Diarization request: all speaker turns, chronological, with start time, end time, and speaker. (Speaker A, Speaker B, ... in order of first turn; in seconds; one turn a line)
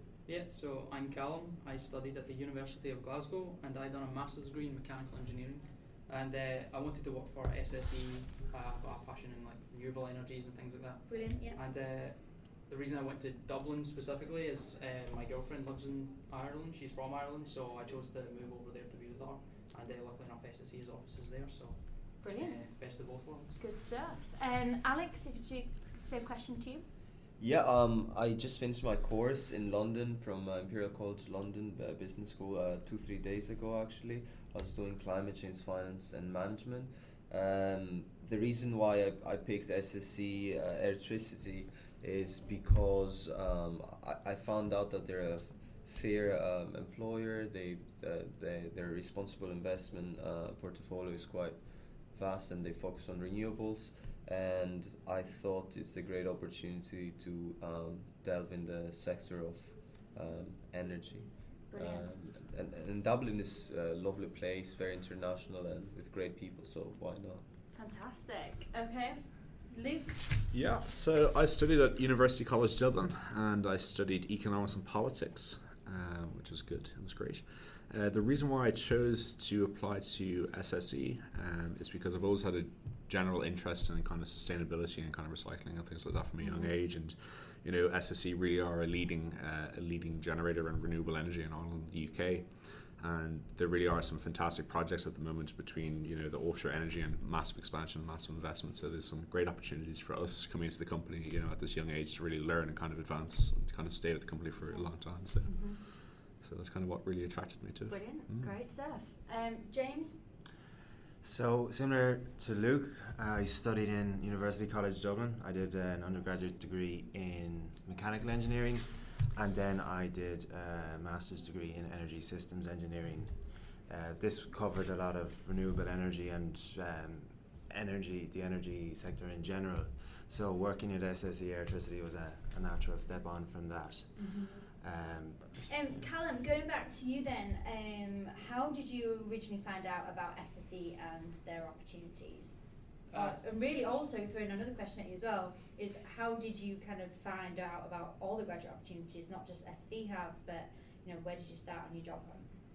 Speaker A: 0.2-23.6
Speaker B: 11.1-11.6
Speaker B: 22.2-26.8
Speaker C: 27.4-67.4
Speaker B: 61.7-62.1
Speaker B: 67.7-70.2
Speaker D: 70.5-108.6
Speaker B: 86.4-86.8
Speaker B: 104.6-105.8
Speaker B: 107.9-110.2
Speaker E: 111.2-135.7
Speaker B: 134.2-134.7
Speaker B: 135.7-152.6
Speaker A: 143.1-143.4